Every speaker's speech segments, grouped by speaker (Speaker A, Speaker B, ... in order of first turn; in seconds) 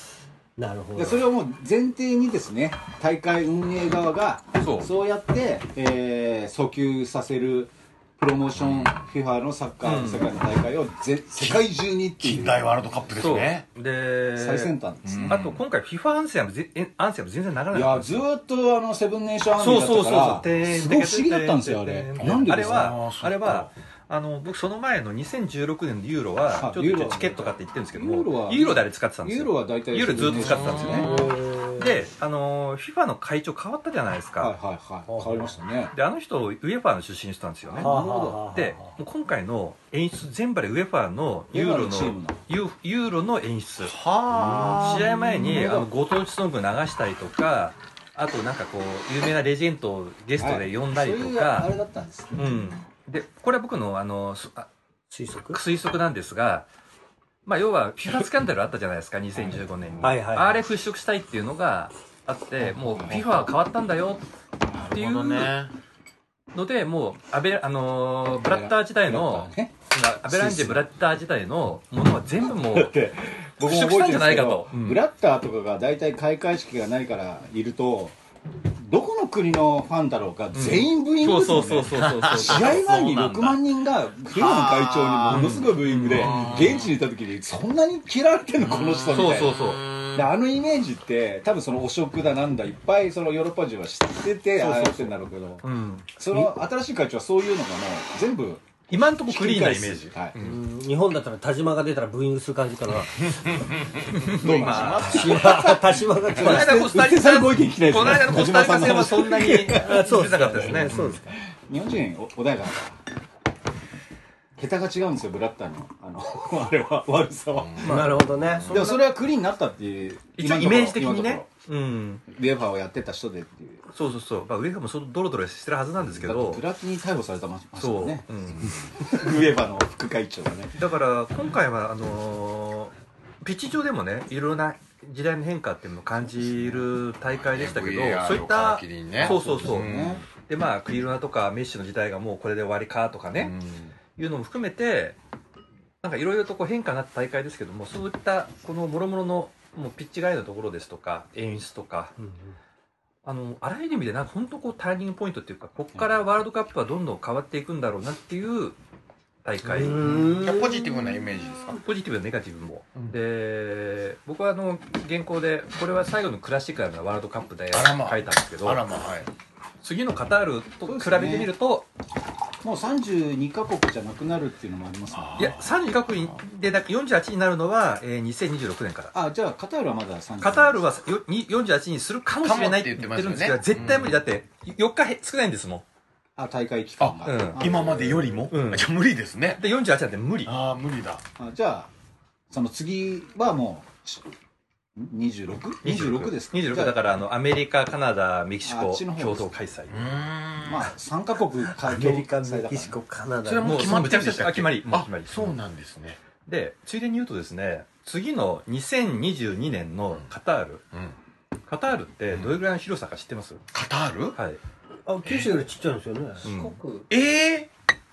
Speaker A: 0.6-1.2, 31.1-32.0, 35.1-35.5, 37.8-38.9, 44.3-44.9, 55.1-55.6, 60.0-60.6, 100.4-103.7, 105.0-106.9, 109.7-111.4, 117.8-119.0, 159.6-160.9, 201.8-204.0, 215.1-217.1
Speaker B: 0.9-12.8, 14.4-15.4, 17.7-23.0, 26.5-31.1, 34.4-35.9, 37.6-38.5, 41.5-42.4, 44.5-45.9, 50.4-52.8, 59.4-60.1, 62.6-63.3, 64.7-65.0, 68.4-69.7, 70.2-70.8, 72.4-78.2, 78.7-89.6, 90.1-95.7, 96.2-100.3, 104.3-113.0, 114.6-118.2, 118.7-121.5, 122.3-123.8, 126.2-130.8, 139.2-140.2, 170.8-171.5, 172.6-175.6, 179.1-180.8, 186.4-188.4, 191.4-191.9, 192.5-194.3, 195.0-197.0, 198.6-199.6, 200.6-203.0
Speaker C: 4.6-4.9, 9.8-10.3, 13.2-14.7, 15.3-18.3, 19.6-31.2, 31.8-34.5, 35.9-43.9, 44.8-51.7, 52.4-54.7, 55.5-56.7, 57.5-64.2, 64.9-65.5, 66.5-73.0, 73.6-75.0, 80.5-82.8, 85.3-86.8, 89.1-89.8, 94.6-96.2, 98.9-100.2, 104.1-105.4, 106.4-111.2, 120.4-122.2, 123.9-126.6, 127.8-128.8, 130.8-143.5, 144.2-145.2, 146.0-152.1, 153.2-158.8, 159.4-160.2, 161.8-168.8, 169.8-171.9, 175.4-179.1, 180.4-185.8, 187.2-187.7, 188.5-188.9, 189.6-190.5, 195.8-200.0, 203.6-205.6, 206.5-210.8, 211.7-213.6, 214.3-214.6, 216.4-216.8
Speaker D: 8.6-9.1, 11.4-11.7, 12.2-13.7, 15.1-15.6, 22.2-23.7, 30.3-31.4, 43.8-45.3, 64.8-65.7, 82.0-83.6, 84.3-86.9, 88.6-90.3, 103.4-105.8, 117.6-118.9, 137.4-140.2, 143.4-143.9, 160.0-161.8, 167.7-169.3, 175.1-175.7, 182.4-184.2, 187.0-189.6, 190.5-191.2, 199.9-200.9, 203.4-206.2, 213.7-214.4, 215.2-215.6, 217.1-217.7